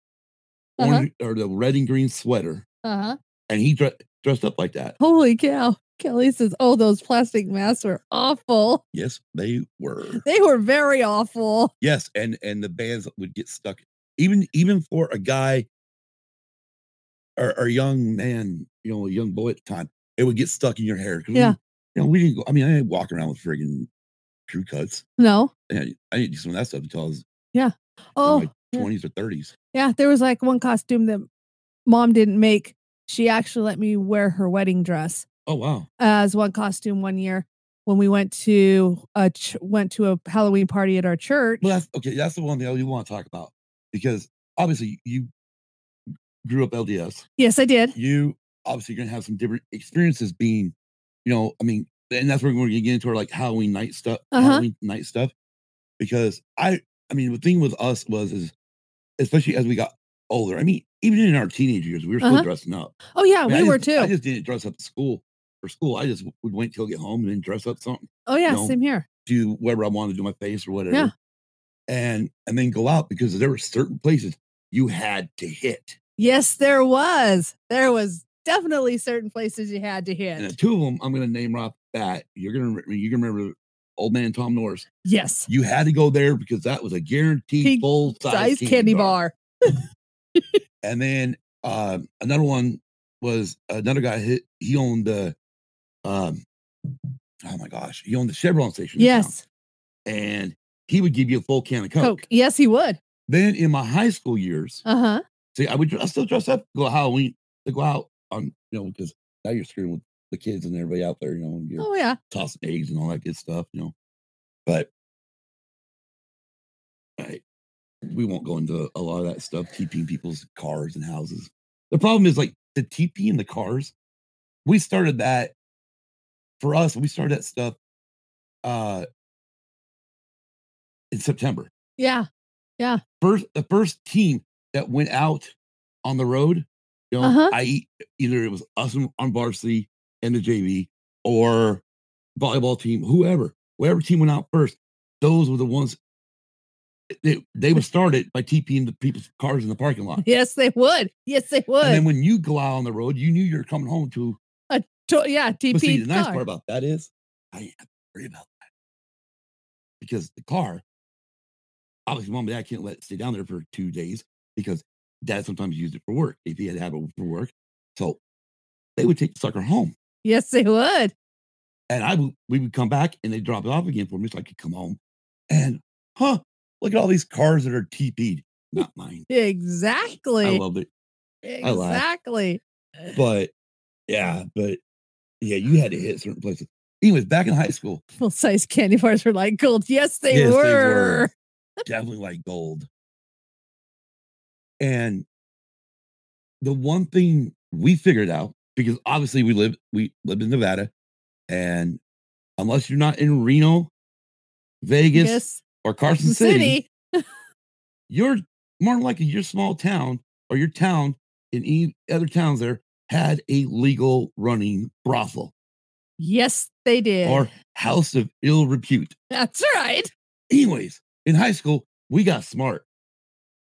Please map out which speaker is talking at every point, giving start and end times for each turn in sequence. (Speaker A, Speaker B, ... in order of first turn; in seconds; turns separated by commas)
Speaker A: 0.8-1.1, Speaker B: 0.8-2.6, Speaker A: 2.8-3.2, Speaker B: 3.5-5.0, Speaker A: 5.0-8.8, Speaker B: 8.9-10.2, Speaker A: 10.2-11.7, Speaker B: 11.8-15.7, Speaker B: 17.4-23.9, Speaker B: 24.5-25.0, Speaker A: 25.2-25.5, Speaker B: 25.7-27.2, Speaker A: 27.5-28.9, Speaker B: 28.2-29.5, Speaker A: 29.7-31.3, Speaker A: 31.9-35.2, Speaker B: 35.5-35.9, Speaker A: 36.0-41.7, Speaker B: 41.6-45.3, Speaker B: 46.4-47.2, Speaker A: 47.4-47.9, Speaker B: 47.9-50.7, Speaker B: 51.2-55.3, Speaker A: 54.3-54.6, Speaker B: 56.0-58.5, Speaker B: 59.2-63.0, Speaker A: 62.2-62.5, Speaker A: 63.1-64.1, Speaker B: 63.5-71.1, Speaker A: 68.3-69.0, Speaker B: 71.9-76.0, Speaker A: 76.2-80.5, Speaker B: 80.4-84.9, Speaker A: 85.0-85.5, Speaker B: 85.5-89.2, Speaker A: 87.6-89.8, Speaker B: 90.8-95.3, Speaker B: 96.0-96.4, Speaker B: 97.4-99.3, Speaker A: 99.0-99.4, Speaker B: 100.0-102.2, Speaker A: 102.0-103.0, Speaker B: 103.3-104.8, Speaker A: 104.8-105.2, Speaker B: 105.5-113.9, Speaker A: 111.8-112.2, Speaker B: 118.0-123.9, Speaker B: 124.7-125.5, Speaker B: 126.6-127.8, Speaker B: 128.6-129.1, Speaker B: 131.1-131.7, Speaker A: 132.0-132.3, Speaker B: 133.2-135.5, Speaker B: 136.0-141.8, Speaker A: 137.2-137.5, Speaker B: 142.4-146.0, Speaker B: 147.2-150.2, Speaker A: 150.2-152.0, Speaker B: 151.8-154.4, Speaker A: 154.7-156.4, Speaker B: 155.7-158.7, Speaker B: 160.0-160.8, Speaker B: 162.1-168.2, Speaker B: 168.9-169.9, Speaker A: 170.2-171.1, Speaker B: 171.9-175.0, Speaker B: 175.5-179.2, Speaker A: 179.3-180.6, Speaker B: 180.4-180.9, Speaker A: 181.4-183.1, Speaker B: 181.6-182.0, Speaker B: 183.1-183.5, Speaker B: 184.1-184.8, Speaker B: 185.4-188.0, Speaker A: 188.2-191.3, Speaker B: 190.3-191.3, Speaker B: 191.8-192.9, Speaker B: 194.8-195.2, Speaker B: 196.6-200.9, Speaker B: 201.5-202.0, Speaker B: 202.6-203.9, Speaker B: 204.8-206.8, Speaker A: 205.1-205.6, Speaker A: 206.2-207.2, Speaker B: 208.1-215.5, Speaker A: 216.2-217.5, Speaker B: 217.2-219.2, Speaker A: 219.3-220.1, Speaker B: 220.5-222.8